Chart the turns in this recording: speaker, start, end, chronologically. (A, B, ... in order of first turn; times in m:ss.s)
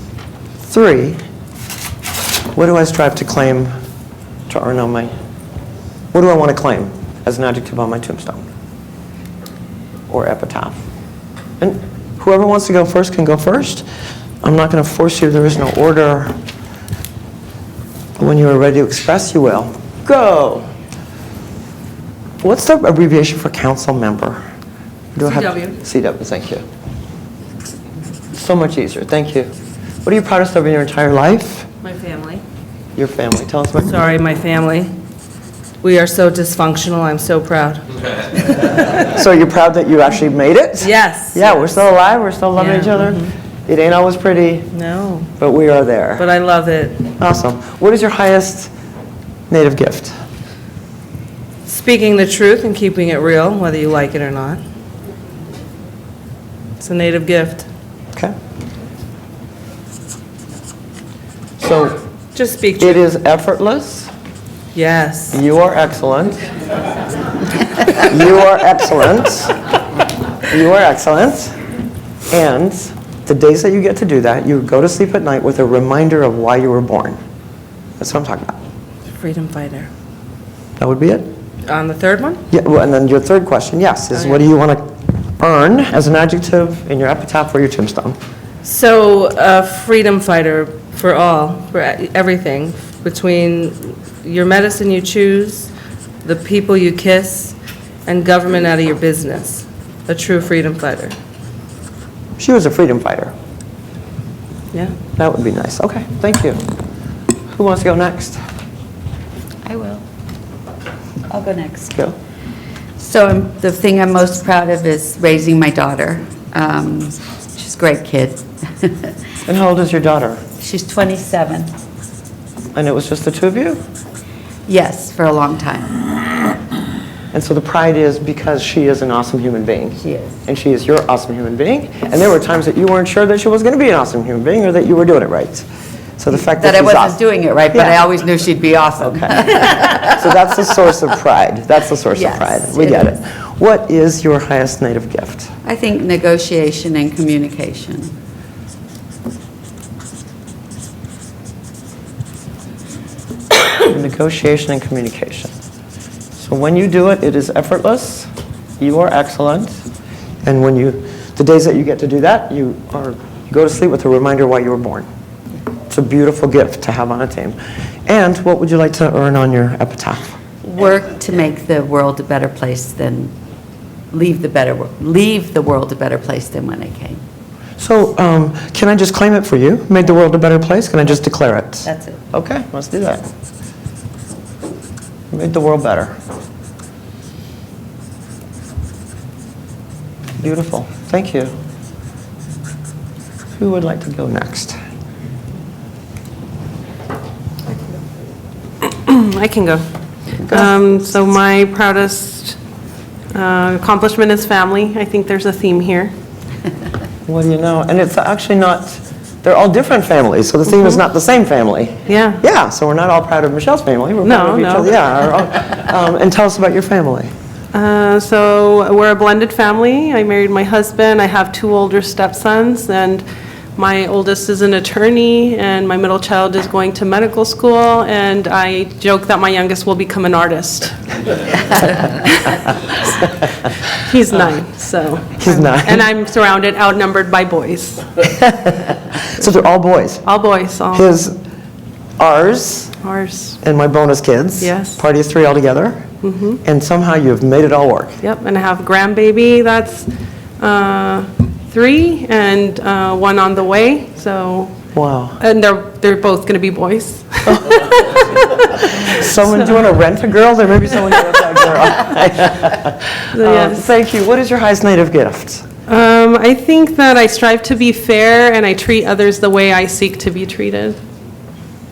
0:00.6-0:01.2 A
0:02.5-0:03.7 A
0:04.5-0:05.1 A
0:06.1-0:08.4 A
0:10.1-0:10.8 A
0:11.6-0:13.8 A
0:14.4-0:16.3 A
0:18.2-0:20.7 A
0:22.4-0:24.4 A
0:25.2-0:26.6 A
0:25.2-0:25.7 B
0:28.3-0:29.5 A
0:30.0-0:31.7 A
0:31.8-0:32.4 B
0:33.0-0:34.0 A
0:33.8-0:34.9 B
0:35.8-0:39.0 B
0:39.0-0:44.7 A
0:40.8-0:41.8 B
0:42.5-0:43.3 B
0:44.7-0:45.3 B
0:45.4-0:46.3 A
0:46.2-0:47.0 B
0:47.2-0:48.7 A
0:49.5-0:50.1 A
0:51.6-0:54.6 B
0:56.8-0:57.7 B
1:01.6-1:02.0 A
1:02.3-1:03.0 B
1:02.8-1:04.1 A
1:04.7-1:05.4 B
1:05.3-1:06.4 A
1:07.9-1:09.5 A
1:10.5-1:11.6 A
1:12.3-1:17.2 A
1:18.0-1:18.6 A
1:19.2-1:19.9 B
1:20.8-1:21.3 A
1:21.6-1:22.4 B
1:22.5-1:28.2 A
1:24.2-1:24.4 B
1:28.6-1:35.7 B
1:36.2-1:41.1 B
1:42.4-1:43.3 A
1:45.2-1:46.6 A
1:47.5-1:48.4 A
1:49.6-1:50.0 C
1:51.3-1:51.9 C
1:53.0-1:59.1 C
1:59.4-2:00.4 A
2:00.6-2:01.7 C
2:02.7-2:03.8 A
2:04.7-2:06.0 C
2:07.3-2:15.6 A
2:10.0-2:10.3 C
2:16.2-2:17.2 A
2:16.4-2:20.2 C
2:17.7-2:18.0 A
2:19.0-2:25.5 A
2:22.1-2:23.1 C
2:25.6-2:28.1 C
2:33.8-2:35.5 A
2:36.4-2:38.3 A
2:38.8-2:39.8 A
2:40.4-2:45.1 A
2:45.9-2:50.4 A
2:50.6-2:53.3 C
2:54.1-2:57.2 C
2:57.8-3:03.2 A
3:01.8-3:02.2 C
3:05.3-3:06.1 A
3:10.4-3:11.5 A
3:13.6-3:14.8 A
3:18.8-3:19.8 D
3:20.4-3:22.6 D
3:23.3-3:26.1 D
3:27.2-3:37.3 A
3:32.1-3:32.4 D
3:34.2-3:34.9 D
3:37.7-3:43.2 D
3:43.8-3:50.9 D
3:51.5-3:52.6 D
3:54.0-3:58.3 D
3:55.4-3:56.0 A
3:58.4-4:00.2 A
4:00.2-4:01.1 D
4:00.9-4:01.4 A
4:02.2-4:02.9 A
4:03.0-4:03.6 D
4:03.6-4:06.0 A
4:04.6-4:05.0 D
4:06.2-4:06.6 D
4:06.6-4:08.2 A
4:08.2-4:14.7 D
4:14.9-4:15.4 A
4:15.4-4:19.8 D
4:17.5-4:17.7 A
4:19.1-4:25.6 A
4:23.3-4:23.9 D
4:25.9-4:31.0 D